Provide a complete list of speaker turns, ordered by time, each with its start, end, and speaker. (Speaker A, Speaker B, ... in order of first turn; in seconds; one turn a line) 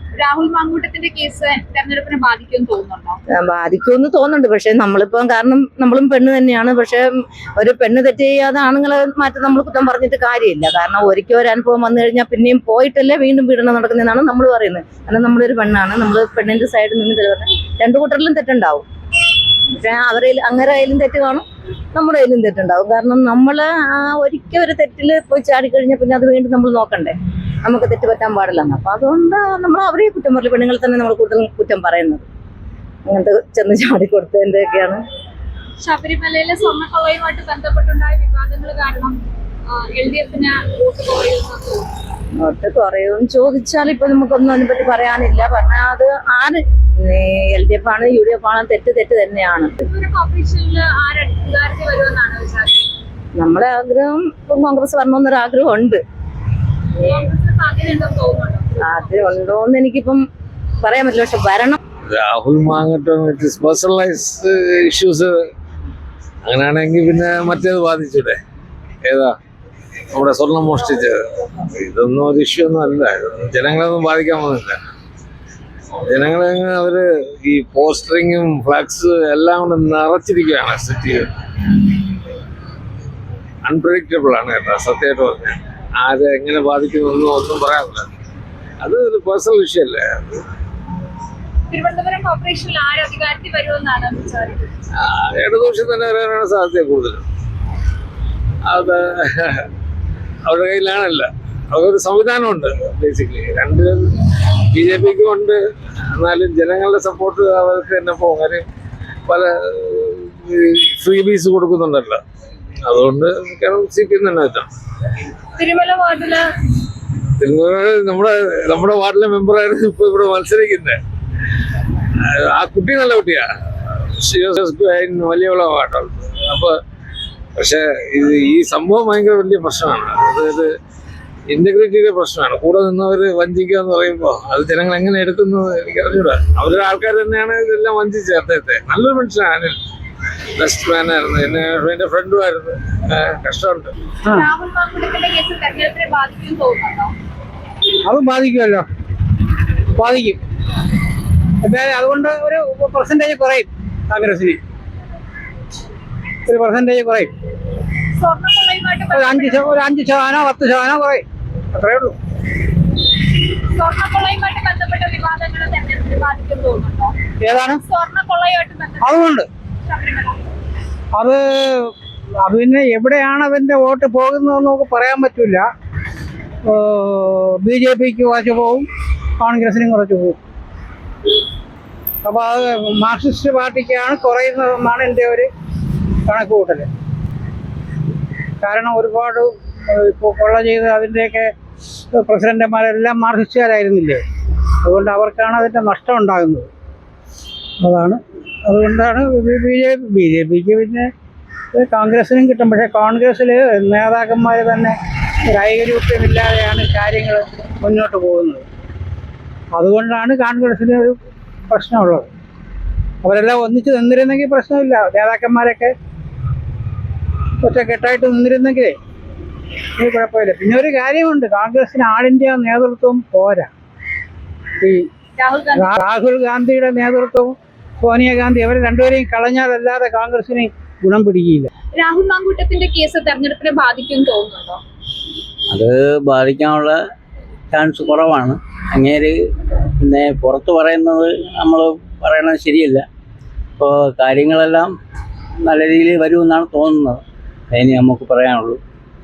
Speaker A: 0.2-3.2
Speaker B: 3.3-18.9
Speaker B: 19.7-32.3
Speaker B: 33.1-35.0
Speaker A: 35.8-39.2
Speaker A: 39.7-41.9
Speaker B: 42.4-49.8
Speaker A: 49.9-52.9
Speaker B: 53.4-56.0
Speaker A: 57.0-59.3
Speaker B: 58.8-60.2
Speaker B: 60.8-61.8
Speaker C: 62.1-65.3
Speaker C: 66.5-68.4
Speaker C: 69.0-69.3
Speaker C: 70.1-74.8
Speaker C: 76.1-81.3
Speaker C: 83.7-88.1
Speaker C: 88.8-90.4
Speaker A: 91.7-94.7
Speaker C: 95.0-97.2
Speaker C: 98.7-99.7
Speaker C: 100.5-105.6
Speaker C: 106.2-108.7
Speaker C: 109.3-112.2
Speaker C: 112.8-114.7
Speaker A: 115.6-116.5
Speaker C: 117.4-121.0
Speaker C: 122.2-123.5
Speaker C: 124.2-126.8
Speaker C: 127.6-130.7
Speaker C: 131.5-139.8
Speaker C: 140.6-143.9
Speaker A: 144.3-147.1
Speaker D: 148.1-148.9
Speaker D: 150.0-150.4
Speaker D: 151.6-154.6
Speaker D: 156.5-157.3
Speaker A: 158.2-159.8
Speaker D: 159.1-162.2
Speaker A: 163.7-167.1
Speaker D: 167.4-167.8
Speaker A: 167.9-169.3
Speaker D: 169.0-169.5
Speaker A: 169.9-170.4
Speaker D: 171.1-175.7
Speaker D: 176.7-178.9
Speaker D: 179.4-180.4
Speaker D: 182.2-185.5
Speaker D: 186.3-186.9
Speaker D: 188.6-191.5
Speaker D: 192.1-194.2
Speaker D: 194.8-196.7
Speaker D: 197.8-201.1
Speaker D: 201.7-205.0
Speaker D: 205.5-208.7
Speaker D: 209.7-211.2
Speaker D: 211.7-212.3
Speaker D: 213.2-215.9
Speaker D: 217.6-219.0
Speaker D: 220.0-223.7
Speaker D: 224.8-225.1
Speaker A: 225.4-226.0
Speaker D: 225.8-231.7
Speaker A: 232.0-234.8
Speaker E: 235.7-237.0
Speaker E: 237.7-239.4
Speaker E: 240.0-243.1
Speaker E: 243.8-244.9
Speaker E: 245.6-247.2
Speaker E: 247.7-248.8